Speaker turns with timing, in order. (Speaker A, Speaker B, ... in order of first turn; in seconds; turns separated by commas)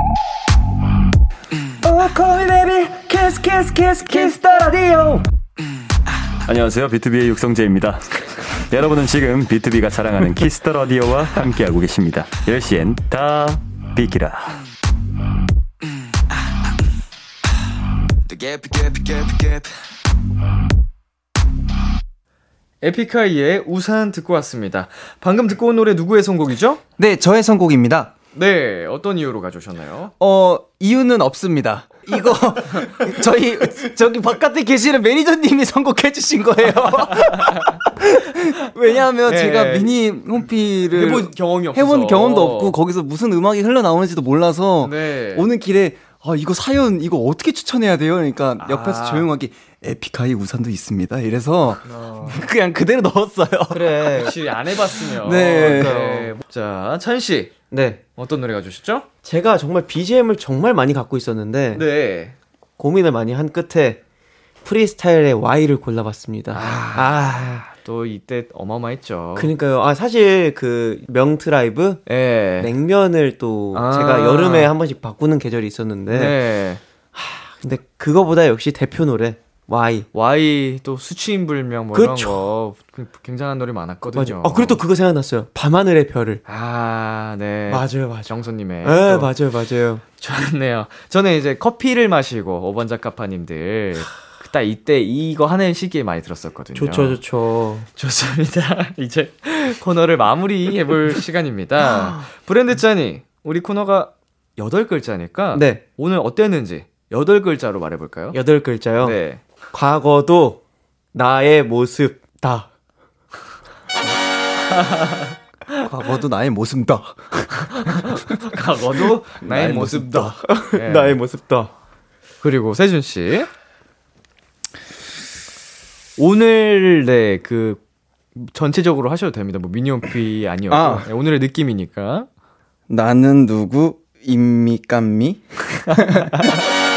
Speaker A: 1.8-5.2, Speaker B: 6.5-14.6, Speaker C: 18.3-19.7, Speaker C: 22.8-26.8, Speaker A: 27.0-28.1, Speaker C: 28.4-30.1, Speaker A: 30.2-54.3, Speaker C: 39.3-40.0, Speaker C: 40.9-42.8, Speaker C: 44.8-45.5, Speaker C: 48.6-49.3, Speaker C: 51.9-52.4, Speaker D: 53.7-54.4, Speaker C: 54.2-57.5, Speaker A: 55.1-56.1, Speaker D: 55.5-56.3, Speaker D: 57.7-58.0, Speaker C: 58.2-59.1, Speaker D: 59.2-61.9, Speaker C: 61.8-62.4, Speaker D: 62.8-64.0, Speaker D: 64.6-67.6, Speaker C: 66.5-69.5, Speaker D: 69.3-72.0, Speaker C: 72.1-72.7, Speaker D: 72.5-76.4, Speaker C: 73.7-74.7, Speaker C: 76.1-76.8, Speaker D: 77.1-80.1, Speaker C: 80.1-84.8, Speaker D: 81.9-82.4, Speaker D: 84.1-86.4, Speaker C: 86.5-89.3, Speaker D: 87.7-90.0, Speaker C: 90.2-97.2, Speaker D: 96.8-97.9, Speaker C: 98.0-108.4, Speaker D: 105.5-105.8, Speaker D: 108.3-109.2, Speaker C: 109.0-109.4, Speaker D: 109.7-110.6, Speaker D: 111.1-112.7, Speaker C: 114.8-115.3, Speaker A: 115.8-118.2, Speaker C: 117.6-121.2, Speaker A: 119.4-120.3, Speaker D: 120.3-121.7, Speaker C: 122.4-123.5, Speaker C: 126.2-127.8, Speaker C: 128.3-132.3, Speaker A: 130.7-131.1, Speaker A: 132.9-136.5